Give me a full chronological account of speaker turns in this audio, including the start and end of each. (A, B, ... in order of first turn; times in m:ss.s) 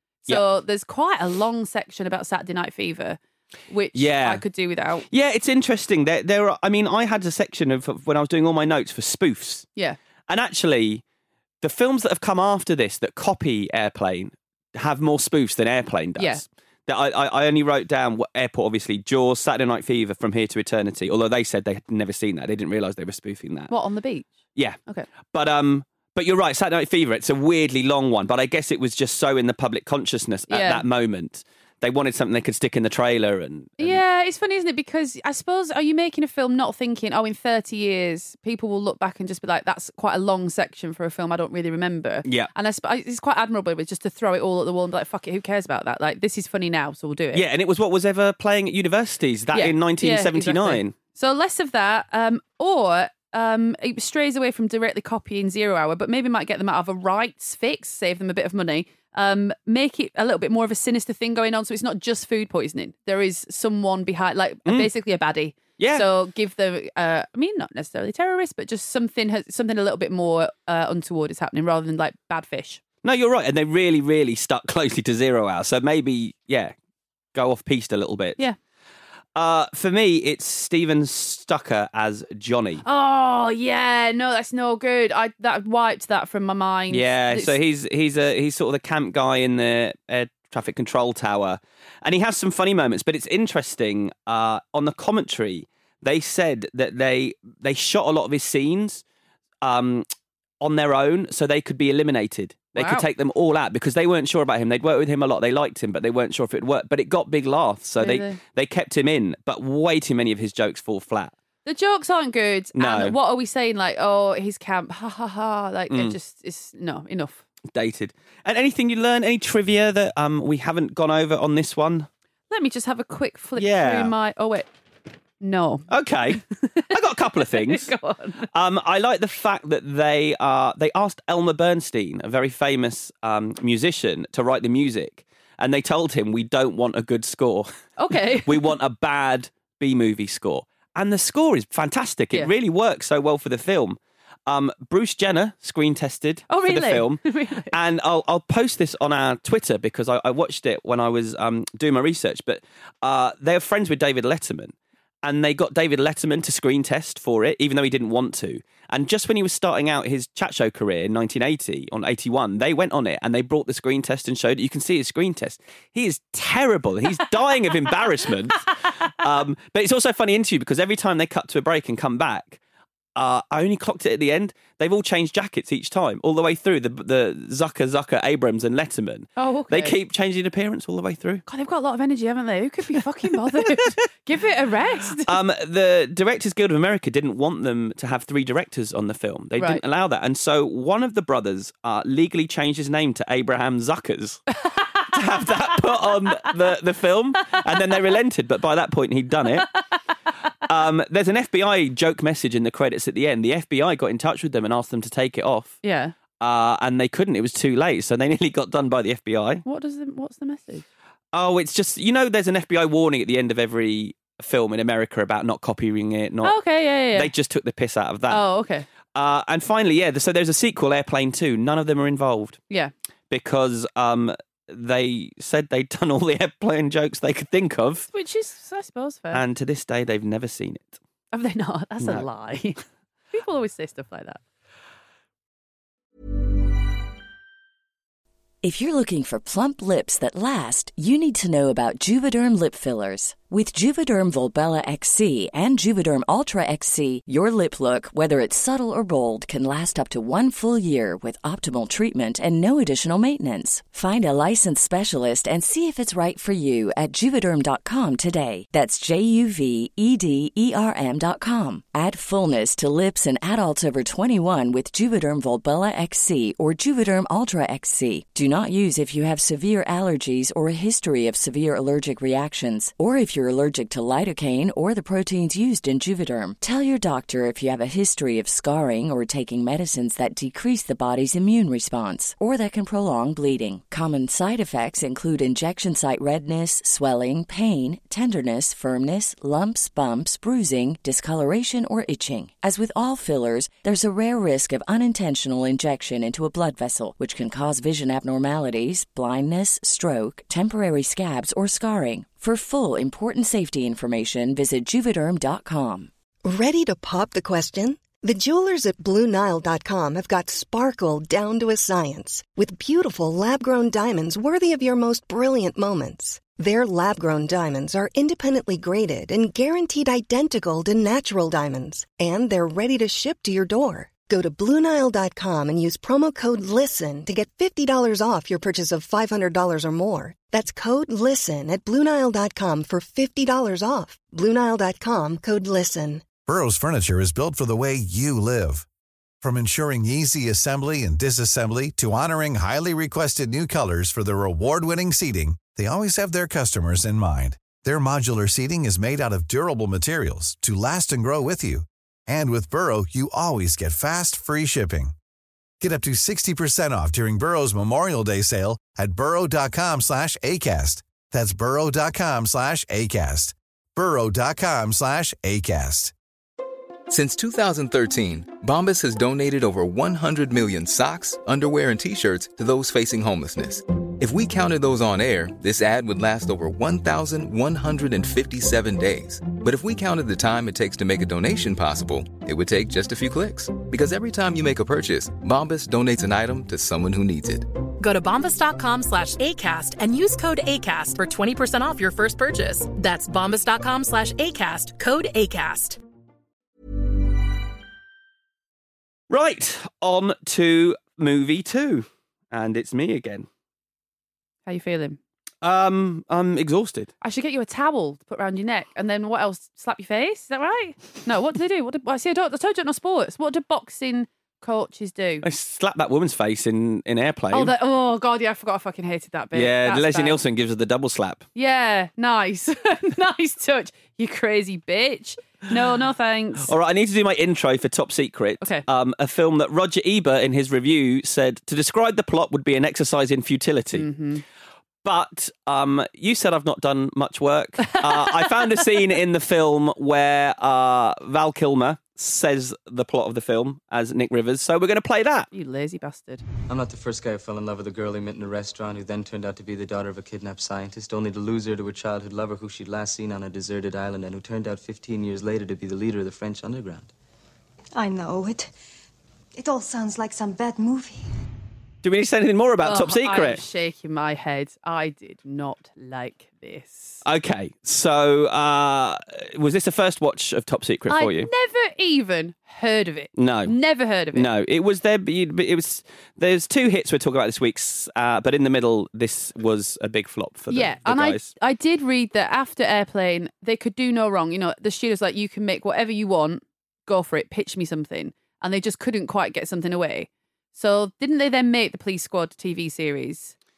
0:00.3-0:05.1 A
0:04.0-0:04.4 B
0:05.1-0:09.7 B
0:10.3-0:11.0 B
0:11.6-0:23.7 B
0:16.2-0:16.4 A
0:23.7-0:24.3 A
0:24.6-0:34.0 B
0:30.5-0:30.9 A
0:33.8-0:47.4 A
0:42.2-0:42.5 B
0:47.3-0:51.0 B
0:49.5-1:12.8 A
1:05.8-1:06.1 B
1:13.0-1:16.7 B
1:17.3-1:18.4 B
1:19.4-1:22.8 B
1:22.8-1:27.6 A
1:26.9-1:39.0 B
1:39.6-1:40.1 B
1:40.6-1:51.3 B
1:42.7-1:43.1 A
1:48.0-1:48.4 A
1:51.6-1:57.4 A
1:52.8-1:53.2 B
1:55.9-1:56.2 B
1:57.7-2:02.1 B
2:02.5-2:04.7 A
2:03.6-2:04.1 B
2:05.4-2:08.5 A
2:05.9-2:07.9 B
2:08.5-2:52.6 B
2:18.0-2:18.7 A
2:26.5-2:27.7 A
2:53.2-3:01.4 B
2:59.4-3:00.0 A
3:01.5-3:05.4 A
3:05.2-3:14.4 B
3:09.6-3:09.8 A
3:14.6-3:16.5 A
3:15.1-3:19.7 B
3:20.7-3:25.8 B
3:25.8-3:26.2 A
3:26.4-3:29.6 B
3:29.6-3:30.8 A
3:31.3-3:36.6 B
3:36.4-3:37.3 A
3:37.1-3:38.4 B
3:38.3-3:38.9 A
3:39.1-3:42.6 B
3:43.3-3:48.1 B
3:48.1-3:49.4 A
3:49.3-3:51.0 B
3:51.3-3:52.8 A
3:53.3-3:54.4 A
3:58.6-5:06.1 C
5:06.4-5:36.3 D
5:36.4-5:38.9 E
5:39.4-5:55.1 E
5:55.8-6:06.1 E
6:07.1-6:27.7 F
6:28.0-6:36.0 G
6:39.3-6:43.5 B
6:44.7-6:45.2 A
6:45.6-6:47.1 B
6:47.2-6:55.5 A
6:55.4-6:57.7 B
6:57.5-7:00.4 A
6:59.5-7:01.4 B
7:01.6-7:06.7 A
7:06.6-7:14.1 B
7:13.9-7:14.4 A
7:15.0-7:25.5 B
7:25.5-7:26.4 A
7:26.7-7:37.1 H
7:38.0-7:38.7 I
7:39.6-7:41.3 I
7:42.0-7:43.6 B
7:42.8-7:47.2 A
7:47.2-7:51.5 B
7:51.1-7:54.5 A
7:53.4-7:53.8 B
7:54.3-8:01.5 B
8:00.7-8:13.5 A